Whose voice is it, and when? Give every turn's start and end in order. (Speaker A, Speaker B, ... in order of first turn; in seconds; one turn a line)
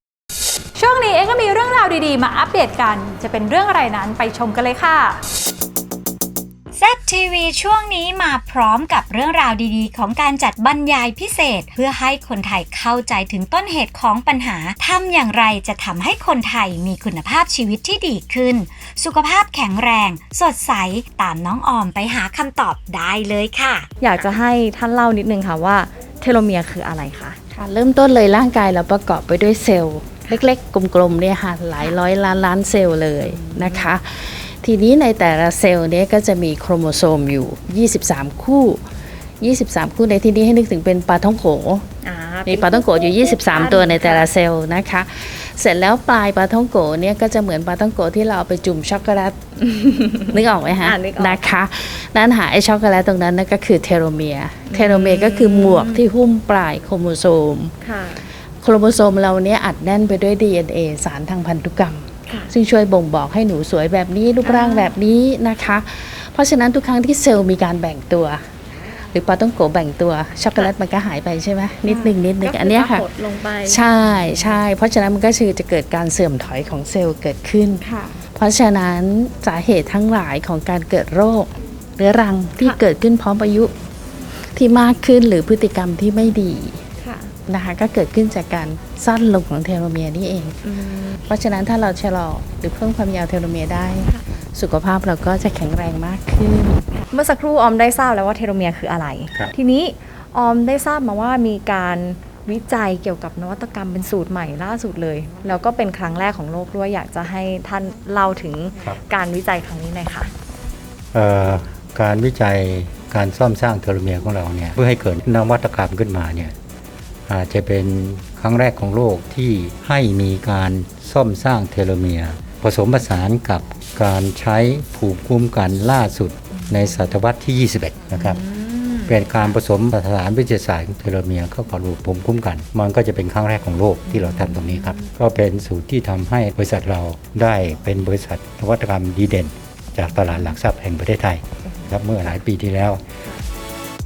Speaker A: 0.8-5.2
Speaker B: 6.8-23.9
Speaker C: 24.0-27.4
Speaker D: 27.5-38.8
Speaker C: 33.2-33.9
Speaker D: 39.4-41.9
Speaker C: 42.0-44.3
Speaker D: 42.5-49.4
Speaker C: 49.6-51.4
Speaker D: 50.3-57.7
Speaker C: 54.7-56.0
Speaker C: 57.8-58.3
Speaker D: 58.6-68.4
Speaker C: 62.3-62.5
Speaker C: 64.4-64.9
Speaker D: 69.1-73.1
Speaker C: 71.9-74.6
Speaker D: 73.7-83.7
Speaker C: 77.8-78.2
Speaker D: 84.5-86.8
Speaker C: 87.0-87.3
Speaker D: 87.5-90.6
Speaker C: 90.6-91.2
Speaker D: 91.3-96.9
Speaker C: 97.0-110.3
Speaker E: 111.1-116.5
Speaker E: 117.3-128.4
Speaker C: 128.1-129.5
Speaker E: 129.0-143.0
Speaker C: 134.1-135.1